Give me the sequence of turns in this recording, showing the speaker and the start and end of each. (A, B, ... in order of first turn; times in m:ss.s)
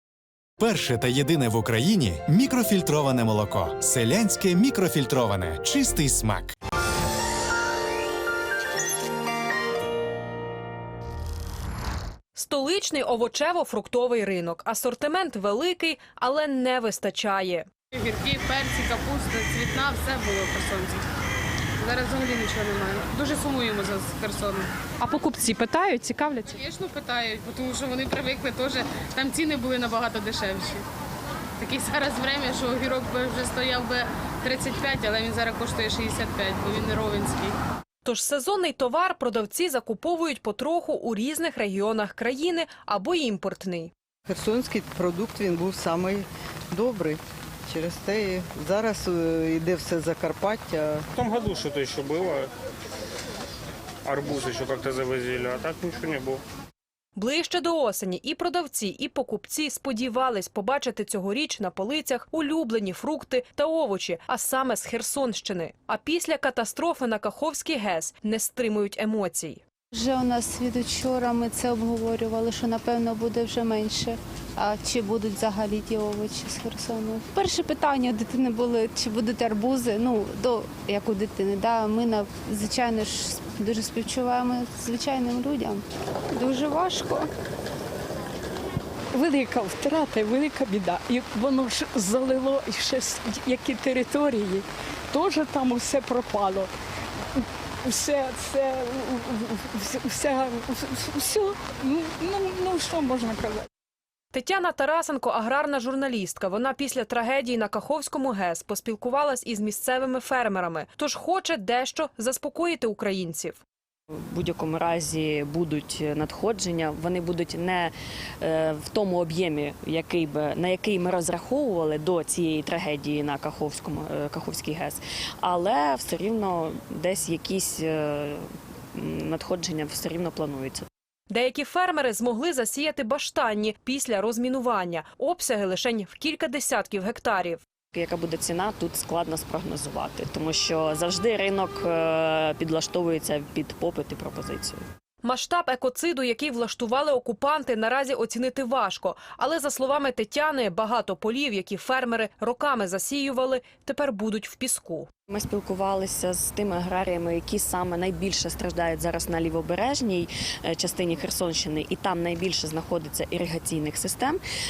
0:00.6-0:06.5 A
0:12.4-0:17.7 B
0:18.0-0:21.0 C
0:21.8-0:24.7 C
0:25.1-0:26.5 B
0:26.5-0:30.8 C
0:31.6-0:37.5 C
0:38.0-0:43.9 B
0:44.3-0:51.1 D
0:51.2-0:52.5 E
0:54.0-0:56.4 E
0:57.2-1:09.6 B
1:09.9-1:25.8 F
1:26.4-1:27.3 F
1:29.1-1:36.7 G
1:37.8-1:43.7 G
1:44.3-1:53.6 B
1:54.4-1:57.9 H
1:58.5-2:08.4 H
2:09.0-2:10.8 H
2:11.3-2:17.6 B
2:18.0-2:24.7 H
2:25.2-2:35.1 B
2:35.4-2:44.4 H